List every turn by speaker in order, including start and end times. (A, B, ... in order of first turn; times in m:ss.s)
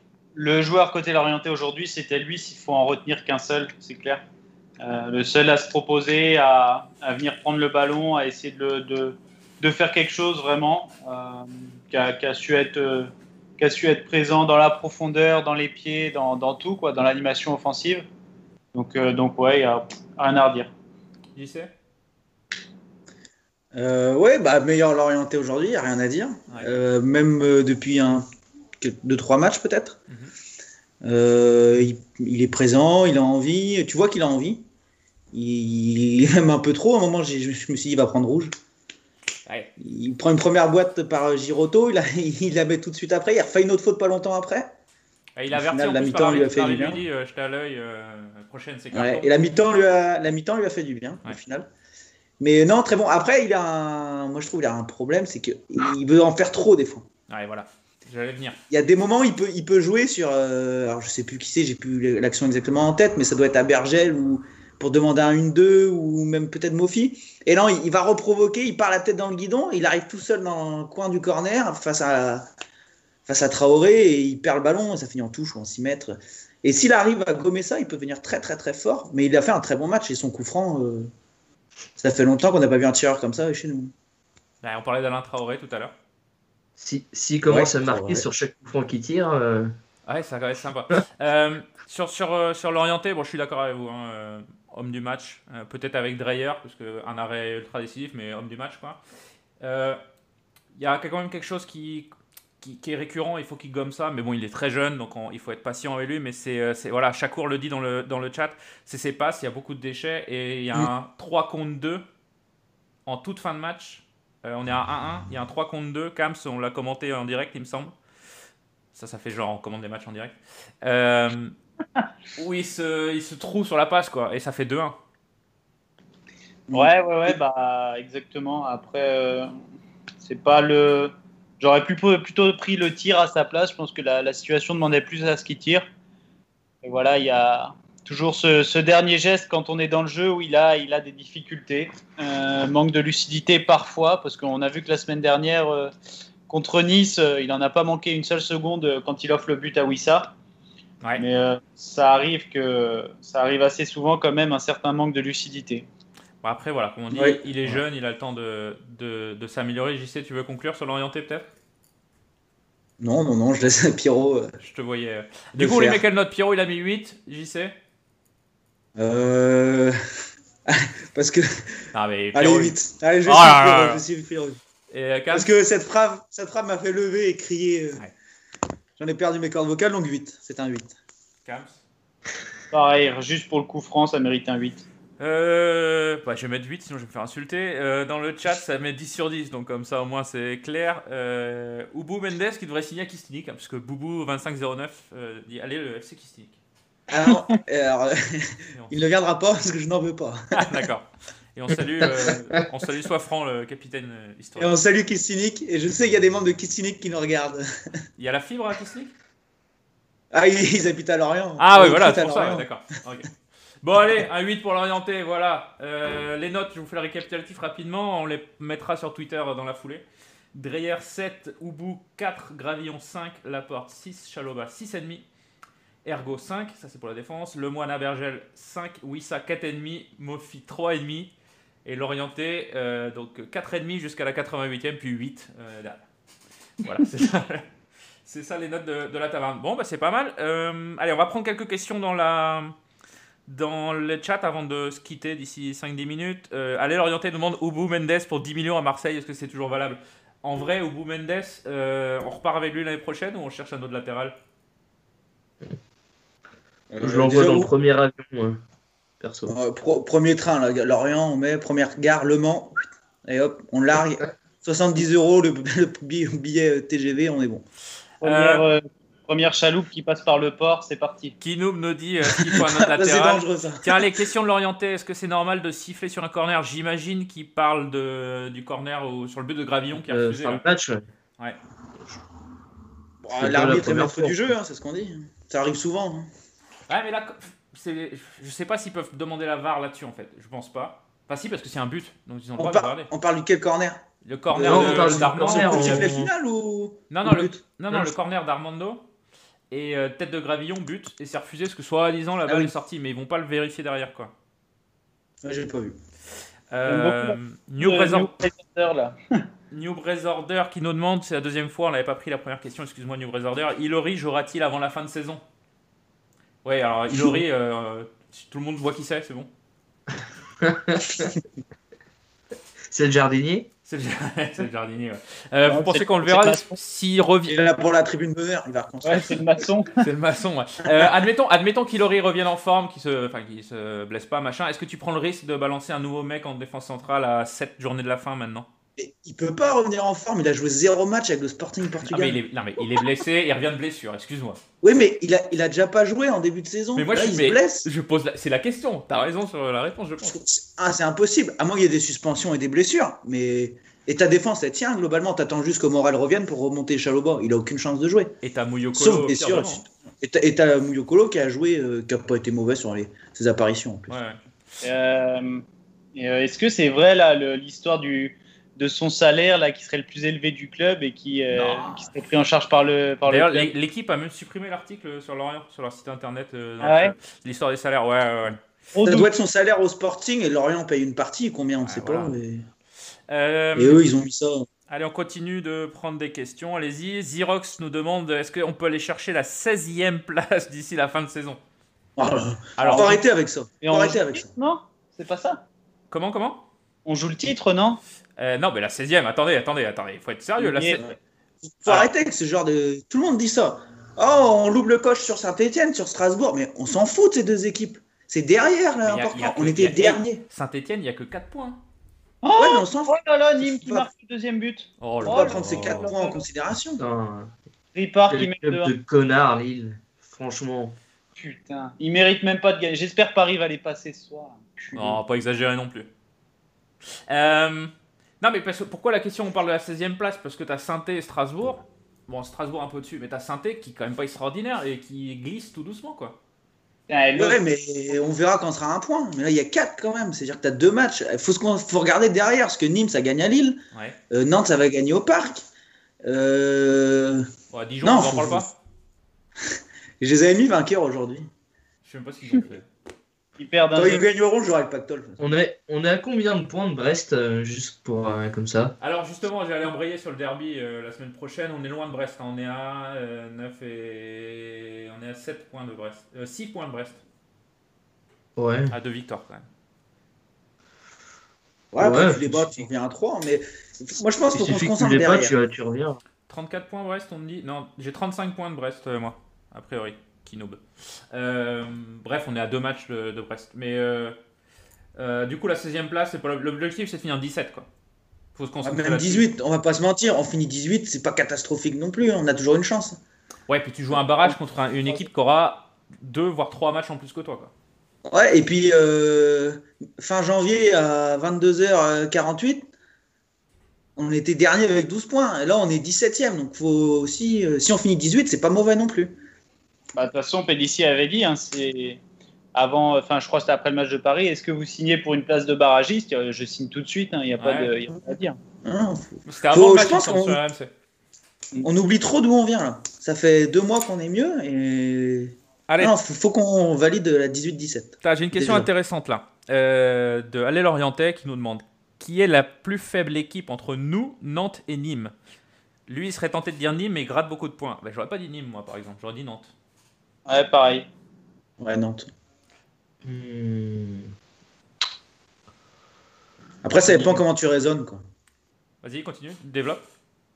0:00.4-0:04.2 A
0:04.8-0:18.0 A
0:18.7-0:20.7 A
0:21.4-0:21.7 B
0:23.7-0:28.2 C
0:28.8-0:30.0 C
0:31.0-0:34.6 C
0:35.3-0:38.5 C
0:39.8-0:44.7 C
0:45.4-0:49.3 B
0:45.5-0:47.0 C
0:48.9-0:51.7 C
0:52.4-0:57.1 C
0:57.3-0:58.6 B
0:58.7-1:12.5 C
1:13.3-1:21.1 C
1:22.0-1:23.9 C
1:24.6-1:25.9 B
1:26.8-1:29.7 D
1:27.5-1:28.2 C
1:30.1-1:39.0 B
1:39.6-1:40.0 B
1:40.8-1:52.0 B
1:53.1-1:58.0 B
1:58.9-2:01.6 B
2:02.4-2:05.0 B
2:06.7-2:07.4 C
2:06.7-2:09.5 A
2:10.2-2:15.9 A
2:16.8-2:25.9 A
2:26.5-2:30.3 A
2:31.2-2:35.9 A
2:36.4-2:41.5 B
2:37.1-2:37.8 C
2:43.0-2:44.5 C
2:44.6-2:47.8 B
2:45.6-2:46.0 C
2:49.0-2:50.0 C
2:50.7-2:51.6 C
2:51.9-2:54.0 B
2:52.3-2:54.6 C
2:54.9-2:55.5 B
2:55.3-2:58.0 C
2:59.0-3:01.0 C
3:01.4-3:01.8 B
3:02.7-3:04.8 A
3:05.2-3:16.6 B
3:17.1-3:20.8 C
3:20.5-3:24.7 B
3:24.6-3:27.6 C
3:28.2-3:29.1 B
3:30.3-3:32.7 C
3:31.6-3:33.3 B
3:33.8-3:40.0 B
3:40.5-3:45.3 B
3:46.0-3:51.3 B
3:51.8-3:56.0 B
3:56.8-3:57.7 B
3:58.3-4:02.8 B
4:03.5-4:14.3 B
4:16.9-4:17.7 C
4:17.0-4:18.6 D
4:19.2-4:19.6 D
4:19.5-4:27.6 C
4:28.2-4:31.4 A
4:28.2-4:28.6 B
4:31.4-4:40.6 B
4:32.6-4:34.0 C
4:39.9-4:41.0 D
4:43.2-4:46.3 C
4:43.4-4:44.6 D
4:46.9-4:53.1 B
4:52.6-4:58.1 C
4:54.2-4:56.1 B
4:54.6-4:56.3 D
4:57.1-4:59.0 B
4:59.7-5:04.3 B
5:05.4-5:06.0 C
5:06.7-5:08.3 B
5:06.9-5:09.2 A
5:09.7-5:15.4 B
5:16.6-5:19.5 B
5:20.6-5:21.3 D
5:22.9-5:23.7 D
5:23.9-5:27.6 B
5:25.6-5:26.8 A
5:27.5-5:29.4 C
5:29.0-5:30.0 A
5:30.0-5:38.7 B
5:30.8-5:31.1 C
5:39.0-5:42.4 C
5:42.0-5:44.6 B
5:44.8-5:47.9 C
5:47.0-5:50.4 B
5:50.2-5:58.4 C
5:58.4-5:59.8 B
5:58.9-6:04.2 C
6:04.1-6:04.4 B
6:04.8-6:05.6 A
6:06.2-6:13.7 A
6:11.5-6:12.1 B
6:13.3-6:18.6 B
6:16.8-6:17.1 A
6:18.9-6:19.3 A
6:19.1-6:22.6 C
6:21.8-6:22.4 B
6:23.3-6:24.0 B
6:23.8-6:24.7 C
6:24.9-6:31.6 B
6:32.2-6:34.4 C
6:32.8-6:33.2 B
6:32.8-6:33.2 A
6:33.8-6:35.6 A
6:36.1-6:36.6 B
6:37.0-6:38.0 A
6:38.4-6:41.0 B
6:40.6-6:41.1 A
6:41.6-6:50.4 C
6:41.9-6:42.1 B
6:49.0-6:51.8 B
6:52.4-6:54.1 C
6:52.6-6:56.4 A
6:55.0-6:56.1 B
6:55.2-6:57.0 C
6:57.0-6:57.5 D
6:58.0-6:58.9 A
6:58.3-7:01.0 D
7:01.4-7:05.2 A
7:04.9-7:06.1 B
7:07.3-7:16.4 B
7:17.1-7:17.6 A
7:17.4-7:23.8 C
7:23.9-7:24.2 B
7:24.3-7:25.6 C
7:26.2-7:27.5 C
7:27.7-7:28.7 B
7:28.0-7:28.7 C
7:30.2-7:31.5 C
7:32.0-7:32.9 B
7:33.6-7:34.3 A
7:34.0-7:35.4 C
7:35.4-7:38.9 D
7:39.0-7:47.2 B
7:48.6-7:48.9 D
7:48.9-7:49.7 B
7:51.9-7:55.5 C
7:52.0-7:52.9 D
7:54.5-7:56.2 D
7:56.5-8:00.8 B
8:01.3-8:04.4 B
8:05.2-8:07.9 B
8:08.6-8:09.5 B
8:08.8-8:13.2 C
8:13.7-8:17.7 B
8:18.3-8:22.9 C
8:24.2-8:29.4 C
8:30.2-8:32.2 A
8:32.7-8:38.6 A
8:37.6-8:37.9 B
8:38.8-8:40.6 C
8:39.5-8:40.9 B
8:41.8-8:48.9 C
8:45.9-8:46.1 B
8:48.2-8:55.3 B
8:56.1-8:59.7 B
9:00.5-9:01.1 A
9:01.8-9:02.3 C
9:03.2-9:04.3 D
9:06.8-9:08.2 C
9:07.1-9:07.4 D
9:09.0-9:10.0 B